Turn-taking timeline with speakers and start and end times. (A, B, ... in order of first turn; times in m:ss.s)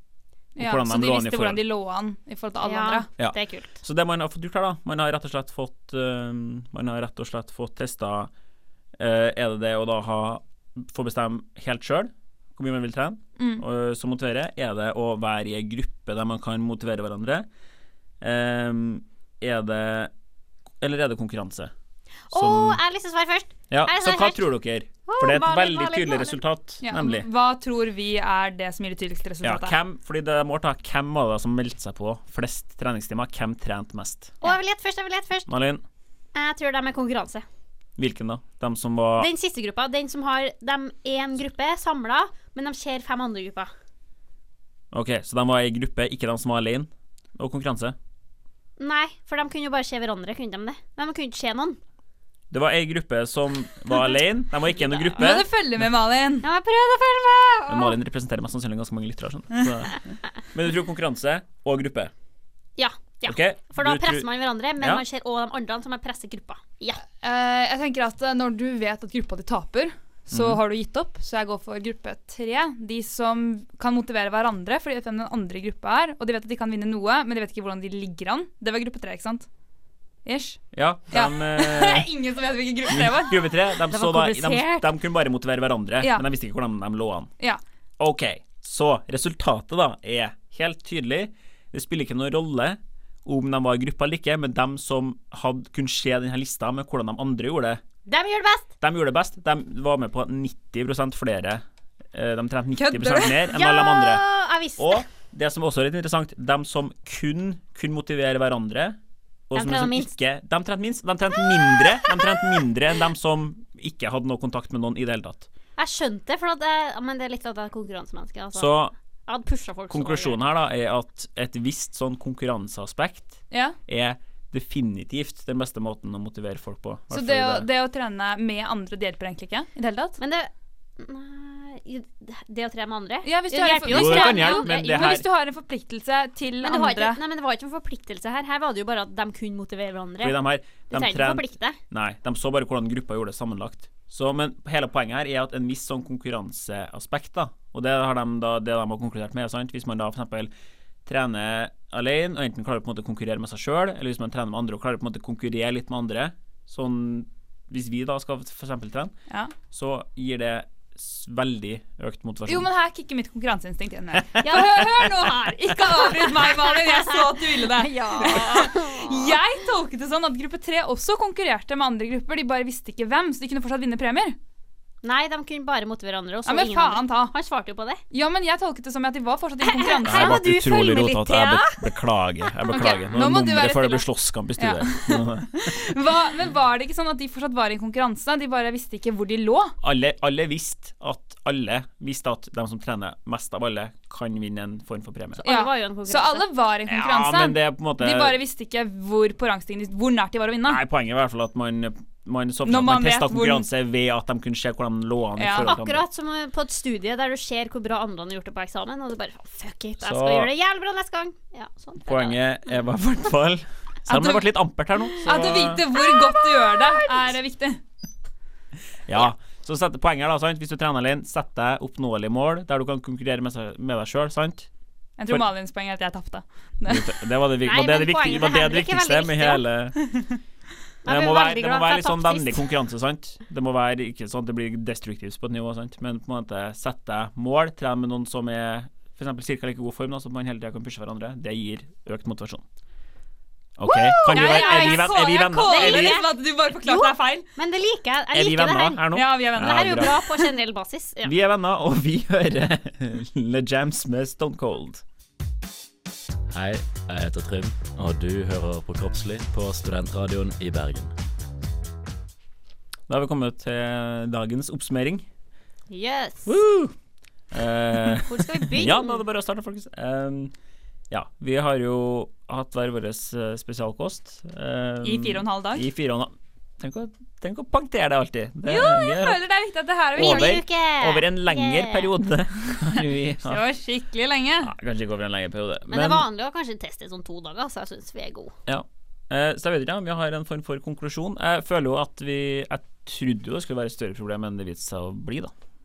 0:00.6-0:03.1 A
0:00.6-0:01.6 B
0:02.6-0:03.8 C
0:03.2-0:08.3 B
0:09.0-0:17.5 B
0:13.4-0:13.6 A
0:18.2-0:20.1 B
0:20.8-0:21.7 B
0:22.3-0:24.5 C
0:22.3-0:22.8 B
0:23.7-0:27.3 B
0:25.1-0:26.4 C
0:26.8-0:29.8 A
0:29.4-0:34.4 B
0:34.4-0:35.5 C
0:35.5-0:35.8 B
0:36.3-0:37.4 C
0:38.0-0:39.3 B
0:39.2-0:43.7 C
0:44.9-0:48.0 B
0:48.8-0:51.8 C
0:52.5-0:55.5 B
0:54.8-0:55.2 C
0:55.2-0:56.4 A
0:56.4-0:57.9 C
0:57.7-1:02.1 B
1:02.8-1:07.0 C
1:03.2-1:05.0 B
1:07.2-1:19.5 A
1:10.3-1:10.6 B
1:20.2-1:23.5 A
1:20.7-1:22.1 B
1:22.9-1:27.3 B
1:23.9-1:24.9 C
1:26.0-1:26.2 A
1:28.0-1:37.8 B
1:38.1-1:38.7 C
1:38.8-1:44.2 B
1:42.7-1:43.4 A
1:43.5-1:45.0 C
1:44.8-1:49.0 B
1:49.5-1:55.5 B
1:49.5-1:50.1 C
1:55.8-2:00.4 C
1:58.5-1:58.9 B
1:59.9-2:07.7 B
2:03.5-2:03.8 A
2:07.1-2:10.2 A
2:10.2-2:15.1 C
2:13.2-2:17.2 A
2:13.8-2:15.3 B
2:16.6-2:21.8 C
2:20.2-2:30.5 B
2:31.0-2:39.1 B
2:39.7-2:42.7 B
2:42.5-2:54.4 A
2:44.4-2:45.0 B
2:44.5-2:44.8 C
2:47.7-2:49.3 C
2:55.0-2:58.0 C
2:56.4-2:57.3 A
2:58.1-3:00.4 A
2:59.6-3:01.8 C
3:00.0-3:05.9 B
3:02.7-3:03.1 C
3:03.1-3:09.8 A
3:09.8-3:15.4 B
3:15.4-3:16.5 C
3:15.4-3:20.8 A
3:16.8-3:18.4 B
3:20.6-3:26.0 B
3:22.6-3:23.7 A
3:25.4-3:25.7 A
3:25.6-3:32.4 C
3:30.0-3:30.5 B
3:32.0-3:35.8 B
3:34.1-3:34.6 A
3:35.2-3:37.8 A
3:35.3-3:37.3 C
3:39.1-3:44.7 B
3:45.2-3:47.1 A
3:46.9-3:50.0 B
3:47.6-3:49.6 C
3:51.0-3:52.7 C
3:51.0-4:02.6 B
4:03.8-4:06.2 B
4:03.9-4:07.5 A
4:04.3-4:11.3 C
4:08.3-4:10.1 B
4:09.1-4:10.5 A
4:11.2-4:15.0 B
4:16.5-4:21.1 D
4:23.1-4:25.2 B
4:25.9-4:26.6 C
4:26.4-4:26.9 B
4:27.5-4:30.5 B
4:28.2-4:29.2 C
4:31.1-4:39.4 B
4:35.0-4:35.8 A
4:38.6-4:40.6 A
4:40.1-4:43.6 B
4:40.2-4:42.1 C
4:43.4-4:44.7 A
4:44.6-4:46.2 B
4:45.9-4:48.6 C
4:48.7-4:55.5 B